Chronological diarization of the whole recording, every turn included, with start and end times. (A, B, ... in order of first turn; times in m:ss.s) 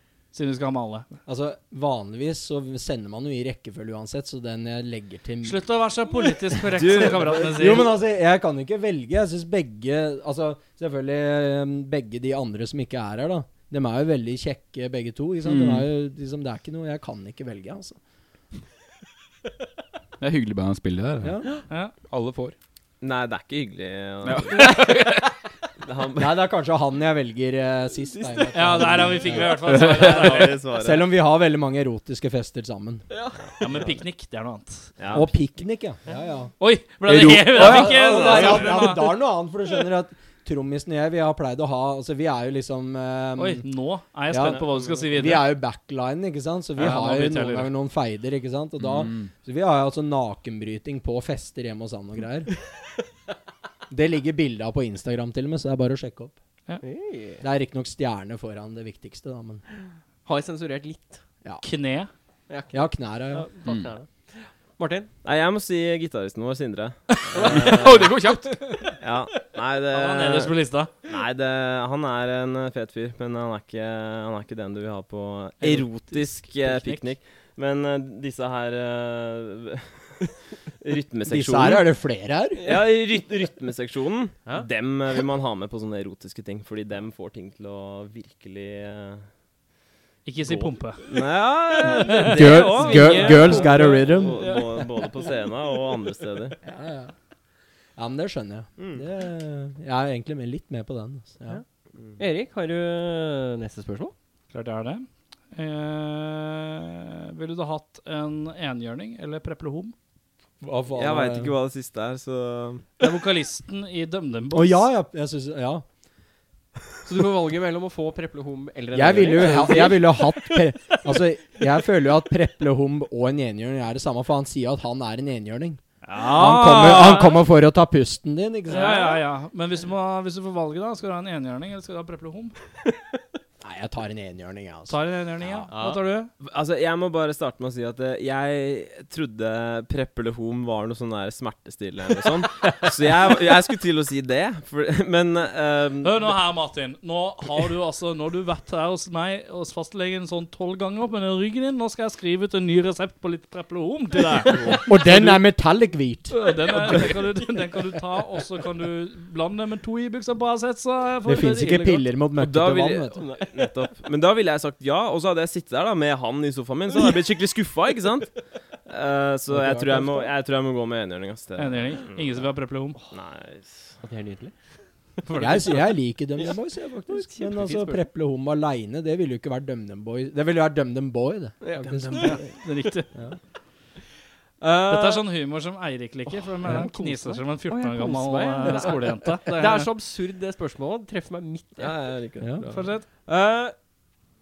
0:00.3-0:01.1 A
0:01.3-0:05.6 B
0:05.4-0:07.9 A
0:06.7-0:07.9 C
0:07.2-0:18.0 B
0:15.4-0:15.9 D
0:20.2-0:21.4 D
0:21.2-0:21.5 B
0:22.1-0:22.6 D
0:23.0-0:24.9 C
0:24.2-0:25.2 D
0:24.6-0:24.9 E
0:25.8-0:26.4 C
0:26.2-0:29.7 B
0:28.1-0:29.3 E
0:28.5-0:30.6 A
0:29.6-0:30.1 D
0:29.7-0:31.1 C
0:30.7-0:33.0 B
0:33.1-0:33.4 E
0:33.6-0:34.9 A
0:35.0-0:35.3 C
0:35.1-0:36.5 B
0:36.6-0:39.2 A
0:37.0-0:38.5 D
0:37.5-0:43.6 B
0:43.4-0:45.5 A
0:44.3-0:52.5 B
0:44.4-0:45.2 C
0:46.8-0:47.7 A
0:48.8-0:49.3 D
0:53.9-0:56.3 B
0:56.8-0:57.4 E
0:57.4-0:59.6 B
1:00.2-1:01.2 E
1:01.6-1:02.1 A
1:02.5-1:05.1 E
1:02.7-1:03.5 B
1:05.2-1:08.2 C
1:07.3-1:08.9 E
1:09.0-1:21.9 C
1:09.9-1:10.9 A
1:15.6-1:17.1 A
1:21.2-1:22.7 B
1:22.6-1:29.2 C
1:30.2-1:31.0 A
1:30.4-1:36.6 C
1:31.8-1:33.0 A
1:32.3-1:34.5 B
1:32.4-1:35.3 E
1:36.6-1:37.1 B
1:38.0-1:41.6 B
1:38.8-1:39.0 C
1:42.2-1:44.1 E
1:44.5-1:49.9 A
1:50.6-1:51.5 B
1:50.9-1:52.8 C
1:53.0-1:54.9 A
1:54.5-1:55.8 B
1:57.0-2:00.6 E
1:58.9-2:09.2 B
2:06.0-2:07.4 A
2:08.7-2:12.5 A
2:08.7-2:09.2 E
2:13.6-2:15.6 B
2:14.9-2:16.3 A
2:15.7-2:16.0 E
2:16.4-2:26.3 C
2:26.0-2:35.4 A
2:34.5-2:34.8 E
2:34.8-2:36.4 B
2:36.3-2:42.1 A
2:41.2-2:43.2 B
2:42.4-2:48.3 C
2:43.2-2:43.7 E
2:48.8-2:52.5 C
2:49.5-2:50.3 B
2:51.6-2:53.0 A
2:53.1-2:54.0 C
2:54.0-2:54.5 E
2:55.2-2:55.7 E
2:55.3-2:55.9 A
2:55.4-3:02.5 B
2:57.1-2:58.0 E
3:01.6-3:02.4 E
3:01.9-3:02.3 C
3:02.2-3:03.1 A
3:04.6-3:05.3 E
3:04.9-3:09.9 A
3:06.3-3:12.0 E
3:11.8-3:12.9 C
3:12.4-3:12.7 B
3:12.7-3:13.0 A
3:13.2-3:13.8 E